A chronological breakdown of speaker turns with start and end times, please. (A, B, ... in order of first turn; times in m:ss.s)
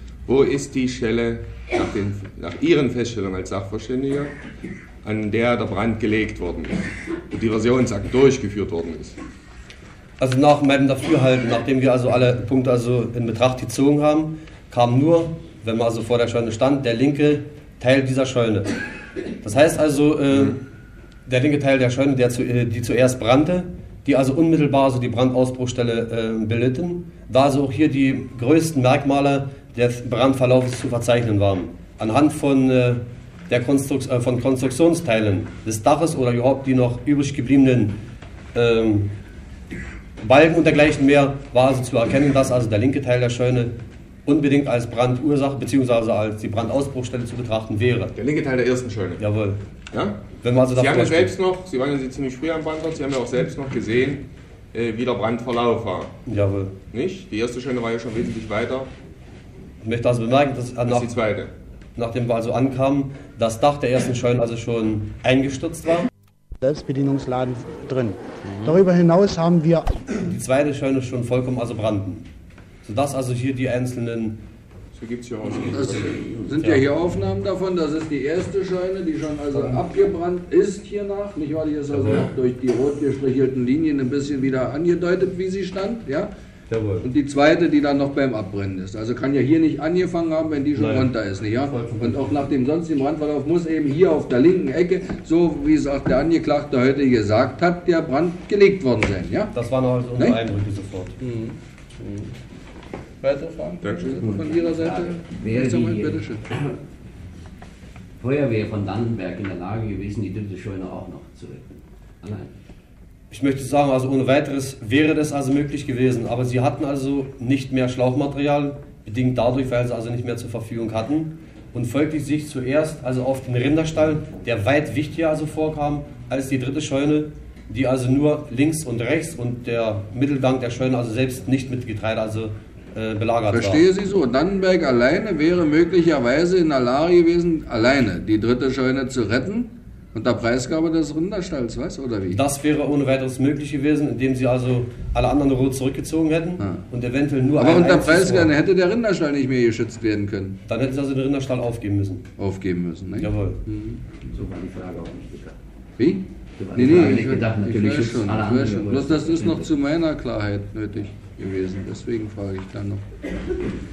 0:00.3-0:04.3 A
0:05.0-0:09.2 A
0:10.2-0:18.7 B
0:19.4-0:20.6 B
0:21.3-0:38.0 B
0:38.5-0:39.1 B
0:40.2-0:43.7 B
0:44.3-0:48.2 B
0:48.2-0:49.2 A
0:49.2-0:49.6 B
0:49.9-0:56.1 A
0:50.4-0:51.4 B
0:56.3-0:56.8 B
0:56.9-0:58.9 A
0:59.8-1:01.2 B
1:00.9-1:01.5 A
1:02.0-1:06.1 B
1:06.6-1:09.9 C
1:10.1-1:12.3 B
1:12.8-1:14.4 B
1:14.9-1:16.1 A
1:15.7-1:26.3 D
1:16.5-1:16.8 B
1:21.9-1:22.3 B
1:26.7-1:27.1 B
1:27.0-1:39.5 D
1:30.8-1:31.1 B
1:39.5-1:41.2 B
1:40.2-1:40.4 D
1:41.2-1:42.3 D
1:43.2-1:46.4 D
1:43.8-1:44.2 A
1:44.2-1:46.7 E
1:48.2-1:51.7 E
1:52.2-1:52.5 E
1:53.3-2:13.8 B
2:13.5-2:22.4 D
2:22.3-2:28.5 B
2:26.6-2:26.8 D
2:27.6-2:30.6 D
2:30.7-2:32.3 B
2:32.4-2:34.0 D
2:33.2-2:33.6 B
2:34.3-2:35.6 E
2:36.0-2:43.0 D
2:36.6-2:39.7 E